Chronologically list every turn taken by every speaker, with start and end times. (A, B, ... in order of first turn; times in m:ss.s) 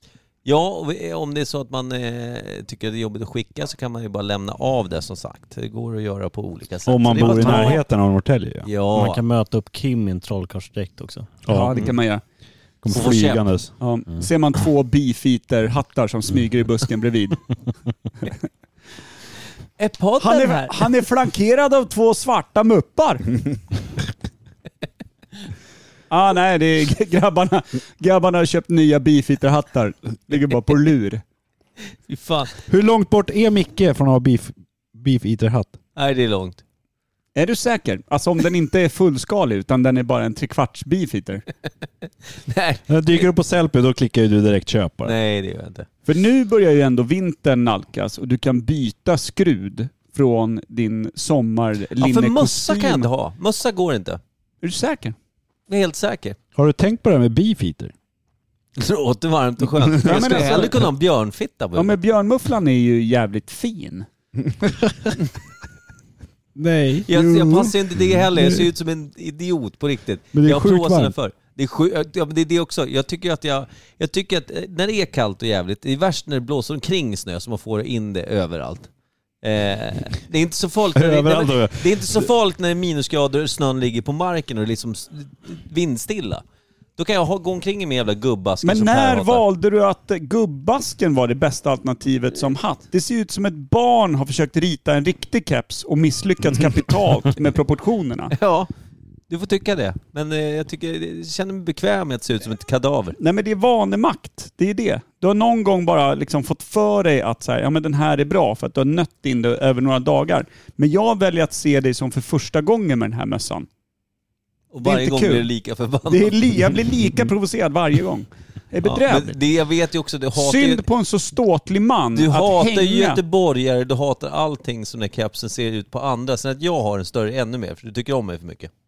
0:00.4-0:07.8 A
0:06.9-0:08.7 B
0:07.2-0:07.8 C
0:08.6-0:09.2 A
0:08.9-0:11.4 D
0:11.5-0:12.2 C
0:11.5-0:11.8 B
0:12.8-0:13.7 B
0:12.9-0:13.4 A
0:13.8-0:17.5 C
0:19.8-0:20.9 A
0:20.2-0:23.5 C
0:26.1-0:31.2 C
0:32.1-0:32.6 A
0:32.7-0:35.8 B
0:36.0-0:36.6 A
0:37.4-0:41.4 C
0:42.3-0:43.3 A
0:42.9-0:45.2 B
0:45.0-0:45.9 A
0:46.1-0:53.1 C
0:52.0-0:54.2 A
0:54.6-0:55.2 C
0:55.7-0:56.4 A
0:56.6-0:57.9 B
0:58.8-1:02.0 A
1:00.0-1:00.9 C
1:00.1-1:00.6 B
1:01.8-1:04.1 C
1:04.6-1:05.1 B
1:06.6-1:07.1 B
1:07.1-1:18.9 A
1:07.1-1:07.7 C
1:08.2-1:08.7 B
1:10.3-1:11.2 B
1:19.4-1:26.4 A
1:20.9-1:22.3 B
1:27.0-1:29.4 A
1:28.6-1:38.4 C
1:38.3-1:38.7 A
1:39.3-1:43.2 A
1:43.2-1:53.7 C
1:54.7-1:56.4 A
1:54.8-1:55.5 C
1:56.1-1:59.4 C
1:58.8-2:00.8 A
2:00.4-2:03.2 C
2:02.2-2:08.7 A